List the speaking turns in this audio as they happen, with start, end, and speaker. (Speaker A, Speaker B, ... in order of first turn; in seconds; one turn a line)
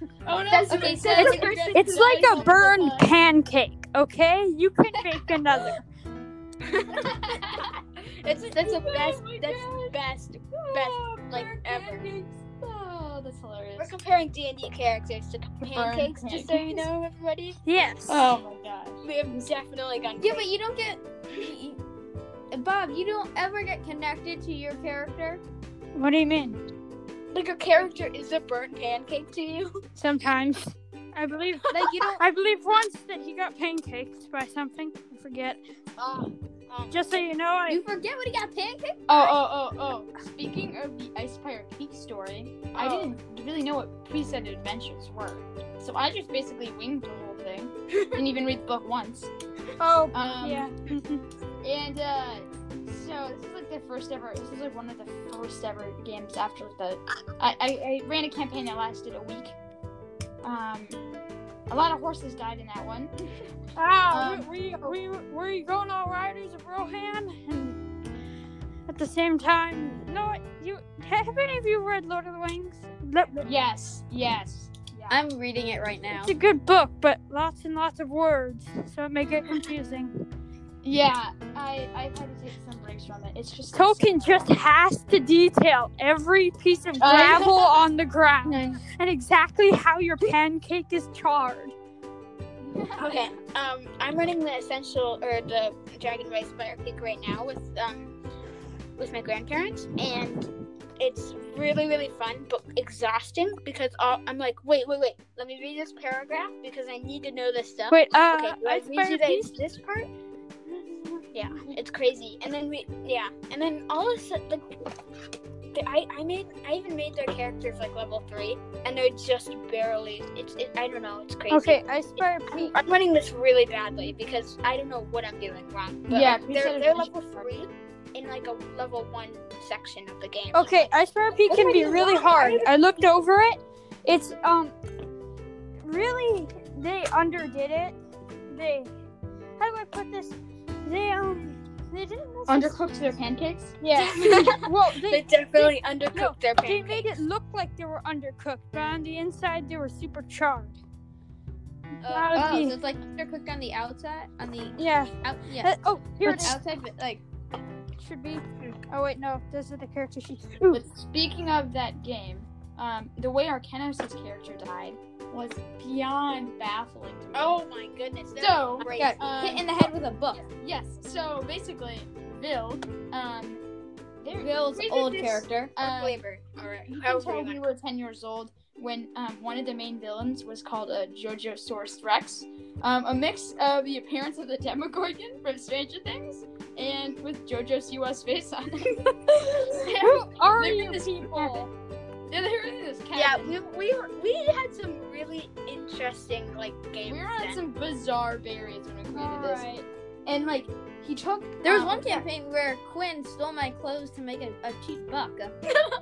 Speaker A: 0.2-3.1
Speaker B: 0.5-1.8
Speaker C: 0.5-1.7
Speaker D: 1.1-5.8
Speaker B: 6.6-7.2
Speaker A: 6.9-10.0
Speaker B: 8.2-12.0
Speaker A: 10.5-13.9
Speaker B: 13.8-17.6
Speaker A: 15.6-16.9
Speaker D: 17.7-18.4
Speaker A: 18.1-19.0
Speaker B: 19.0-20.5
Speaker C: 20.2-21.8
Speaker C: 22.5-25.4
Speaker D: 25.9-26.6
Speaker B: 27.3-29.8
Speaker D: 30.0-35.6
Speaker C: 31.7-32.2
Speaker B: 36.0-37.3
Speaker D: 36.9-37.8
Speaker C: 37.7-39.3
Speaker A: 39.1-49.3
Speaker B: 42.8-43.1
Speaker D: 49.8-51.2
Speaker A: 50.1-50.7
Speaker A: 51.6-59.6
Speaker A: 60.4-61.0
Speaker A: 61.7-63.1
Speaker D: 63.8-67.8
Speaker A: 64.1-65.0
Speaker D: 68.9-73.5
Speaker A: 73.4-75.2
Speaker C: 75.1-76.3
Speaker D: 76.1-80.1
Speaker A: 80.8-84.5
Speaker D: 83.7-91.8
Speaker A: 87.0-87.6
Speaker A: 88.5-88.8
Speaker A: 92.6-93.3
Speaker B: 93.0-98.2
Speaker B: 99.0-110.1
Speaker D: 107.9-109.6
Speaker B: 111.3-114.7
Speaker B: 115.7-130.9
Speaker D: 121.5-122.8
Speaker A: 126.1-127.5
Speaker D: 130.5-134.8
Speaker B: 131.5-132.7
Speaker D: 135.8-138.0
Speaker D: 138.5-138.9
Speaker D: 139.6-142.8
Speaker A: 142.5-144.6
Speaker D: 143.8-150.8
Speaker B: 143.9-147.2
Speaker D: 152.0-152.8
Speaker B: 152.1-152.3
Speaker C: 152.3-157.2
Speaker D: 154.8-156.6
Speaker A: 156.3-156.5
Speaker D: 158.0-160.8
Speaker A: 160.7-167.6
Speaker B: 167.3-169.2
Speaker A: 168.4-173.6
Speaker C: 168.8-170.4
Speaker A: 174.2-176.2
Speaker C: 174.3-175.7
Speaker B: 175.8-177.6
Speaker A: 176.9-191.7
Speaker D: 190.0-191.7
Speaker A: 192.3-193.6
Speaker B: 193.1-197.6
Speaker A: 197.1-199.7
Speaker D: 199.1-199.9
Speaker A: 200.3-202.3
Speaker C: 201.6-205.5